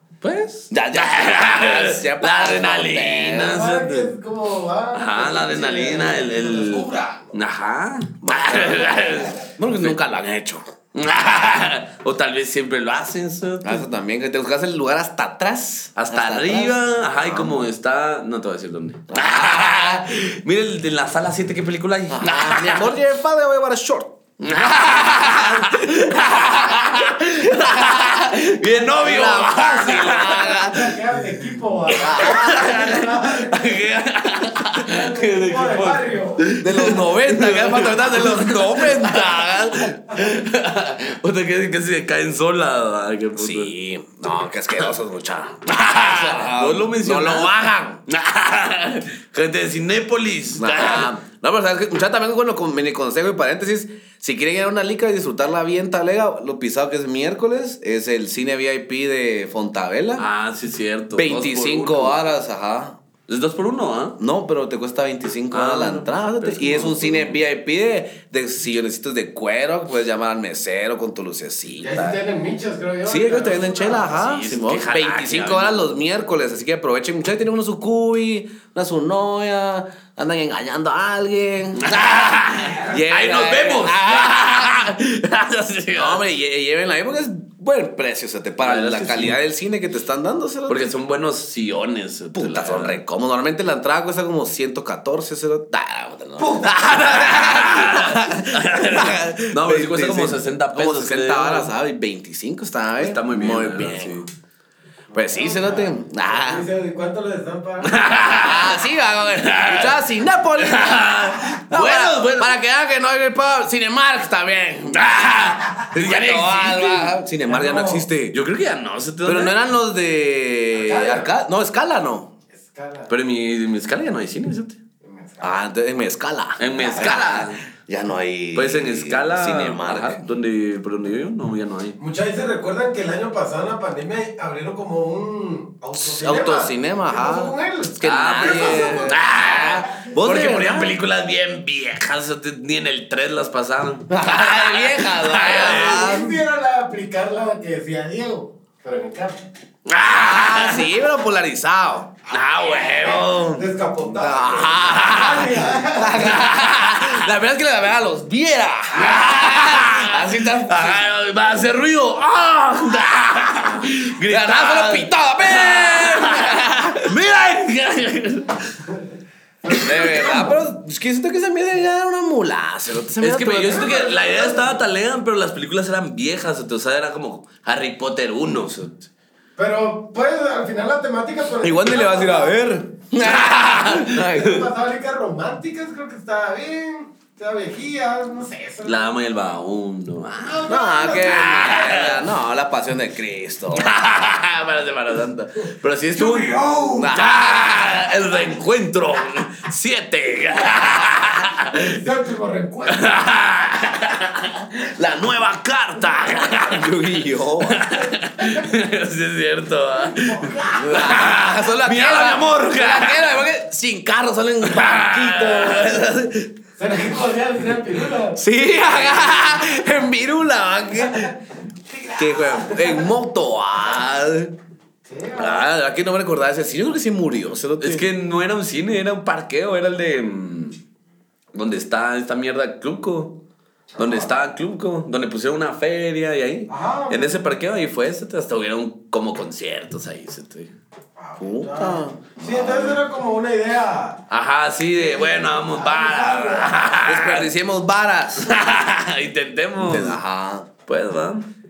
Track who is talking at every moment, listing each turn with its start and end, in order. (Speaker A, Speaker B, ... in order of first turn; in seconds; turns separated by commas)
Speaker A: 0.2-4.1, Speaker B: 0.7-3.6, Speaker C: 3.4-7.3, Speaker A: 4.9-10.0, Speaker B: 8.2-10.7, Speaker A: 10.9-13.9, Speaker B: 13.6-17.6, Speaker A: 16.0-22.9, Speaker B: 19.1-20.1, Speaker B: 22.1-24.2, Speaker A: 24.4-30.7, Speaker B: 25.0-31.0, Speaker C: 30.1-33.9, Speaker A: 31.9-43.7, Speaker B: 32.0-32.9, Speaker C: 34.8-36.5, Speaker B: 36.6-40.0, Speaker B: 43.4-48.0, Speaker A: 45.7-47.5, Speaker A: 48.1-51.1, Speaker B: 50.5-60.3, Speaker A: 60.2-62.2, Speaker B: 61.1-63.0, Speaker A: 63.3-64.2, Speaker B: 64.2-72.2, Speaker A: 65.5-67.4, Speaker C: 71.8-74.3, Speaker B: 73.1-82.2, Speaker A: 74.1-75.9, Speaker A: 81.8-86.2, Speaker B: 82.8-84.9, Speaker B: 85.9-90.8, Speaker A: 88.6-89.4, Speaker A: 90.7-93.0, Speaker B: 92.3-104.2, Speaker A: 96.6-101.7, Speaker A: 103.0-104.3, Speaker C: 105.1-108.0, Speaker B: 105.1-106.7, Speaker A: 107.8-112.6, Speaker B: 108.3-118.4, Speaker A: 114.9-117.2, Speaker C: 117.5-118.1, Speaker A: 118.3-119.6, Speaker B: 119.2-122.3, Speaker C: 120.7-121.3, Speaker C: 122.5-123.1, Speaker A: 123.1-124.8, Speaker C: 125.0-125.5, Speaker B: 125.4-130.2, Speaker A: 126.6-127.6, Speaker C: 126.8-127.1, Speaker A: 128.6-132.0, Speaker C: 132.0-140.0, Speaker B: 136.0-141.0, Speaker A: 138.0-146.1, Speaker B: 144.1-146.4, Speaker C: 145.4-149.4, Speaker A: 149.9-150.9, Speaker B: 150.1-152.1, Speaker A: 152.3-153.7, Speaker C: 152.6-156.4, Speaker B: 154.2-161.1, Speaker A: 154.9-155.4, Speaker A: 156.2-157.3, Speaker A: 158.9-168.8, Speaker B: 164.2-167.2, Speaker C: 169.7-170.4, Speaker A: 169.7-170.4, Speaker B: 169.8-174.0, Speaker A: 173.2-179.1, Speaker C: 173.7-174.8, Speaker C: 179.6-182.8, Speaker B: 181.6-184.6, Speaker A: 183.2-184.4, Speaker C: 184.0-189.1, Speaker A: 188.8-192.3, Speaker C: 190.5-191.8, Speaker B: 190.7-193.9, Speaker A: 193.7-202.1, Speaker C: 196.1-197.2, Speaker B: 197.0-197.8, Speaker C: 201.8-203.3, Speaker A: 202.9-207.0, Speaker B: 206.5-207.8, Speaker A: 207.6-213.3, Speaker C: 210.1-211.0, Speaker B: 210.7-216.4, Speaker A: 214.7-216.2, Speaker C: 216.8-218.4, Speaker B: 218.4-221.3, Speaker C: 221.9-223.1, Speaker B: 222.2-224.5, Speaker C: 225.1-225.7, Speaker B: 225.3-228.1, Speaker A: 227.8-230.8, Speaker A: 231.5-233.4, Speaker C: 234.0-234.3, Speaker A: 234.0-240.7, Speaker C: 236.7-237.5, Speaker C: 241.2-244.2, Speaker B: 241.4-243.0, Speaker A: 244.3-247.5, Speaker C: 245.0-247.0, Speaker B: 247.0-248.5, Speaker A: 248.4-250.2, Speaker B: 249.8-250.7, Speaker A: 250.9-251.5